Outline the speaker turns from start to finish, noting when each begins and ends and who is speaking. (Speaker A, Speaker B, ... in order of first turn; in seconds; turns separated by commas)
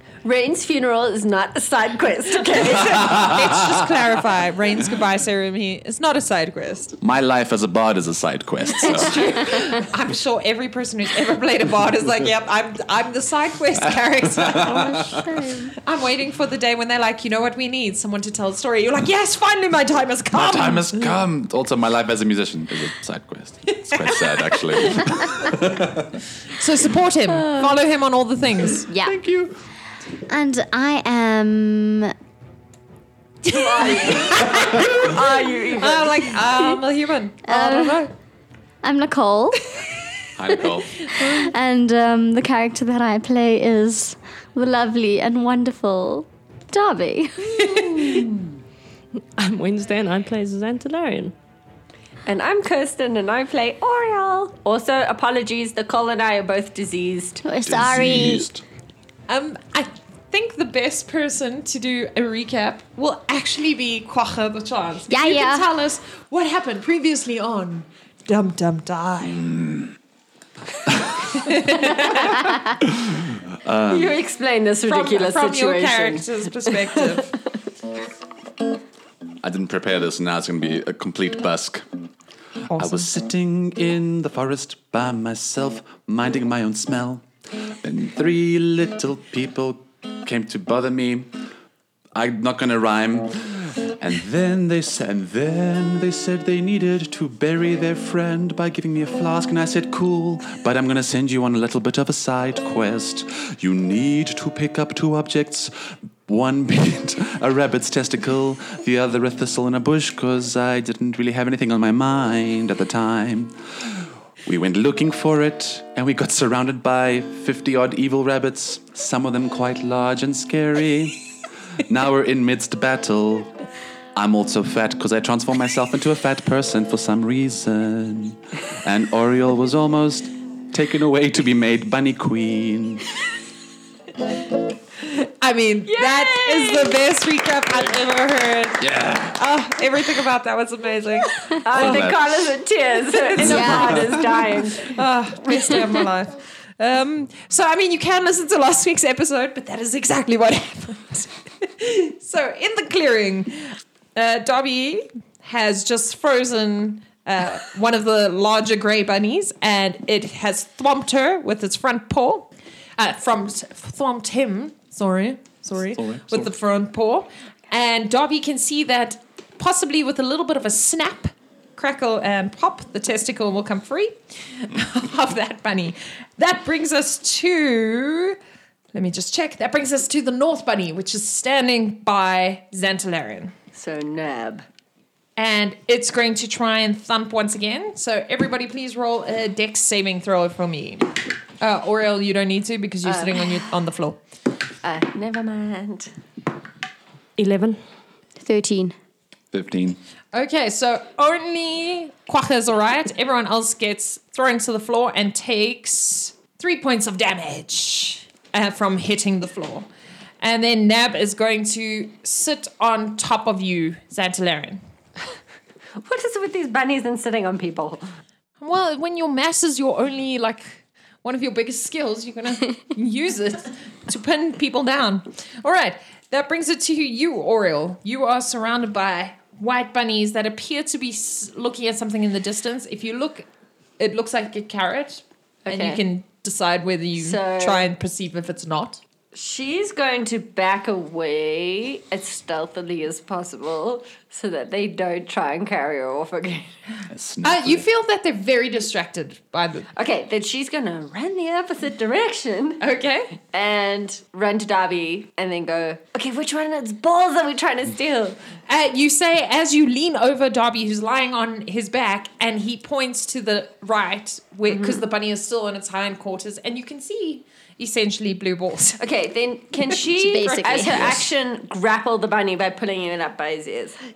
Speaker A: 0.2-3.3, Speaker B: 2.6-7.0, Speaker C: 2.8-4.0, Speaker C: 7.0-9.3, Speaker B: 8.7-14.9, Speaker A: 8.9-9.8, Speaker C: 14.4-15.3, Speaker D: 14.6-15.7, Speaker B: 15.8-20.9, Speaker C: 20.3-26.1, Speaker B: 23.8-25.1, Speaker B: 26.5-28.9, Speaker D: 27.3-27.8, Speaker D: 28.9-29.2, Speaker C: 29.0-29.6, Speaker D: 30.3-32.1, Speaker B: 33.5-35.1, Speaker A: 33.5-36.3, Speaker D: 33.8-34.6, Speaker B: 35.7-38.1, Speaker D: 37.5-38.0, Speaker D: 38.8-39.6, Speaker C: 40.4-41.1, Speaker D: 41.1-48.1, Speaker B: 47.6-48.3, Speaker E: 49.4-51.3, Speaker A: 52.2-57.4, Speaker D: 57.4-58.5, Speaker C: 57.6-58.6, Speaker B: 59.3-69.5, Speaker D: 65.1-65.7, Speaker C: 69.3-69.9, Speaker B: 71.4-72.5, Speaker C: 72.8-74.2, Speaker A: 73.9-77.2, Speaker B: 74.8-77.3, Speaker C: 79.4-81.8, Speaker B: 82.7-83.1, Speaker C: 82.7-87.2, Speaker C: 87.8-91.3, Speaker C: 92.1-121.2, Speaker C: 121.8-123.5, Speaker C: 124.1-133.1, Speaker B: 135.0-142.2, Speaker A: 135.8-137.0, Speaker C: 138.8-139.4, Speaker A: 141.6-144.9, Speaker C: 141.7-142.4, Speaker B: 143.1-144.0, Speaker D: 143.4-144.1, Speaker C: 143.4-144.6, Speaker B: 144.8-178.4, Speaker C: 166.0-166.5, Speaker B: 178.9-183.5, Speaker A: 183.7-184.7, Speaker B: 185.4-194.2, Speaker A: 193.0-193.4, Speaker A: 194.8-196.1, Speaker E: 197.4-197.8, Speaker D: 198.4-198.9, Speaker C: 199.5-200.0, Speaker B: 200.3-209.9, Speaker B: 210.4-214.8, Speaker A: 216.0-218.0, Speaker B: 218.6-233.5, Speaker B: 234.0-239.0, Speaker A: 235.7-236.0, Speaker A: 237.2-237.8, Speaker A: 239.3-246.7, Speaker C: 247.1-247.8, Speaker B: 247.4-249.9, Speaker A: 249.9-252.8, Speaker B: 252.8-253.3, Speaker A: 253.5-258.4, Speaker B: 258.7-269.0, Speaker A: 264.7-265.0, Speaker A: 269.0-274.0, Speaker D: 270.1-271.2